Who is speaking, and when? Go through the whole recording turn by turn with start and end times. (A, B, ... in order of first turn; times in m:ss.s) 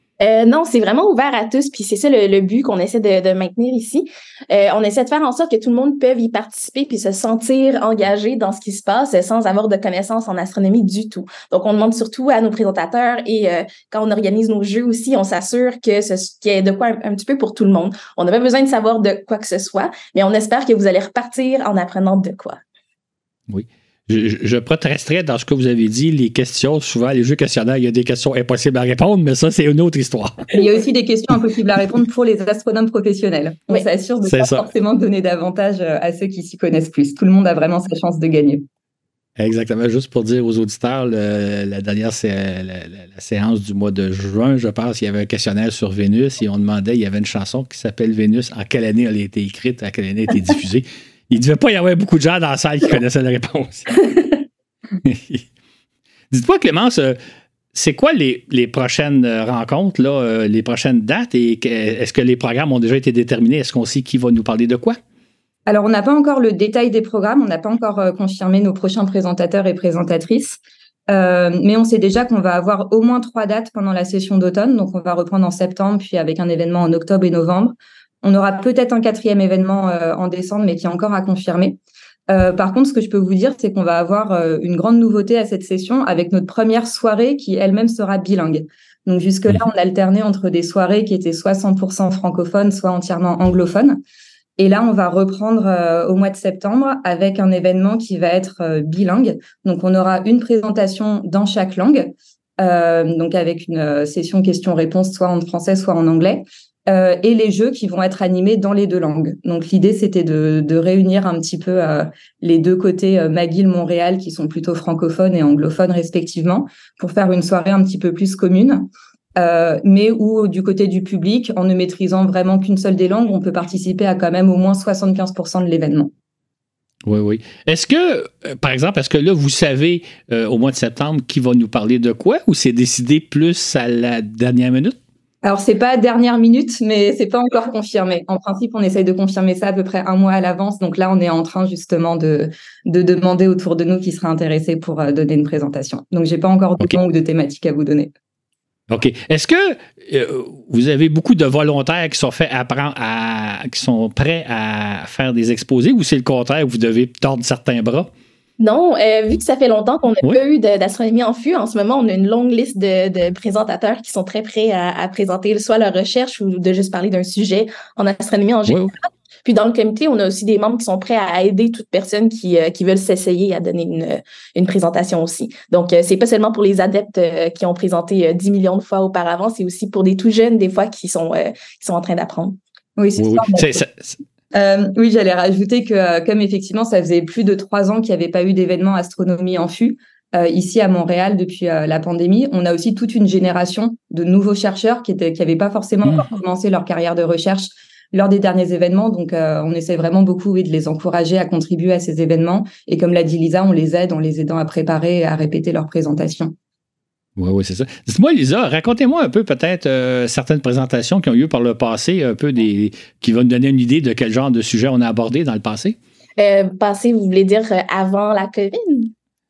0:00.2-0:22.6 A
0:23.5-0:30.4 B
0:30.5-0:38.6 C
0:34.2-0:34.6 B
0:39.4-0:54.0 B
0:55.0-0:55.4 B
0:56.3-0:57.2 B
0:57.7-1:05.0 B
1:05.7-1:21.8 C
1:22.3-1:34.0 C
1:34.6-2:06.1 C
2:07.0-2:15.0 B
2:15.4-2:28.1 C
2:28.9-2:38.1 B
2:38.6-2:48.9 A
2:48.7-2:48.9 B
2:49.4-3:02.6 A
3:03.0-3:03.8 C
3:03.2-3:04.2 B
3:04.5-3:26.5 C
3:27.4-3:36.0 B
3:36.4-3:39.1 A